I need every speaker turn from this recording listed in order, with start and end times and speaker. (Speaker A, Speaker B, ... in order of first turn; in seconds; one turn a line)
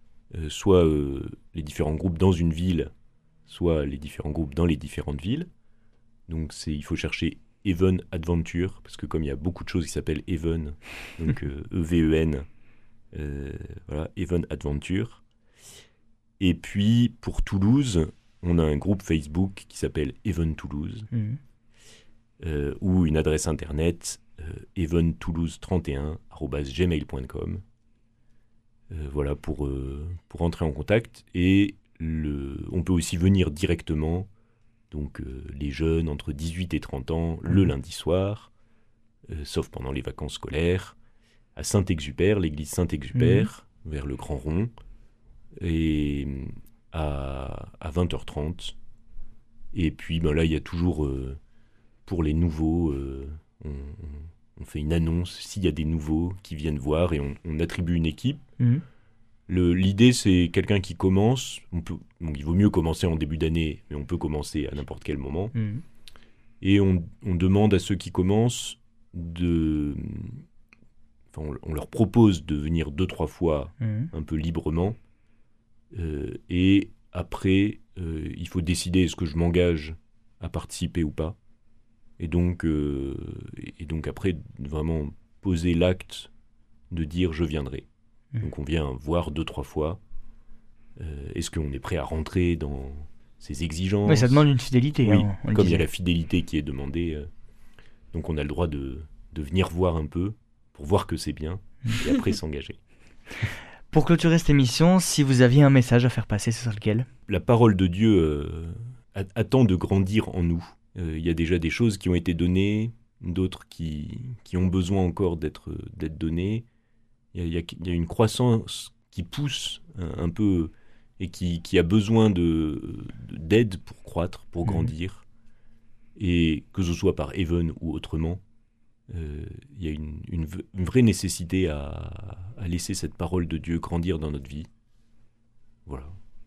Speaker A: 0.3-2.9
Speaker A: 3.5-5.5
Speaker A: 6.3-12.5
Speaker A: 13.1-15.2
Speaker A: 16.4-21.1
Speaker B: 21.1-21.4
Speaker A: 22.4-27.6
Speaker A: 28.9-34.3
Speaker A: 34.9-38.5
Speaker A: 39.3-41.0
Speaker A: 41.6-44.7
Speaker B: 43.2-43.5
Speaker A: 45.6-48.8
Speaker A: 49.7-51.4
Speaker A: 52.1-58.4
Speaker A: 59.5-65.5
Speaker B: 65.5-65.8
Speaker A: 66.6-70.4
Speaker A: 71.3-75.0
Speaker B: 73.8-74.1
Speaker A: 75.9-81.4
Speaker A: 82.2-86.3
Speaker A: 86.9-87.9
Speaker A: 88.4-90.0
Speaker A: 91.0-94.5
Speaker B: 94.1-95.9
Speaker A: 95.0-97.3
Speaker A: 98.1-102.8
Speaker B: 103.9-107.1
Speaker A: 107.3-116.7
Speaker A: 117.3-125.2
Speaker B: 124.7-124.9
Speaker A: 126.2-128.4
Speaker A: 129.1-134.7
Speaker A: 135.9-136.1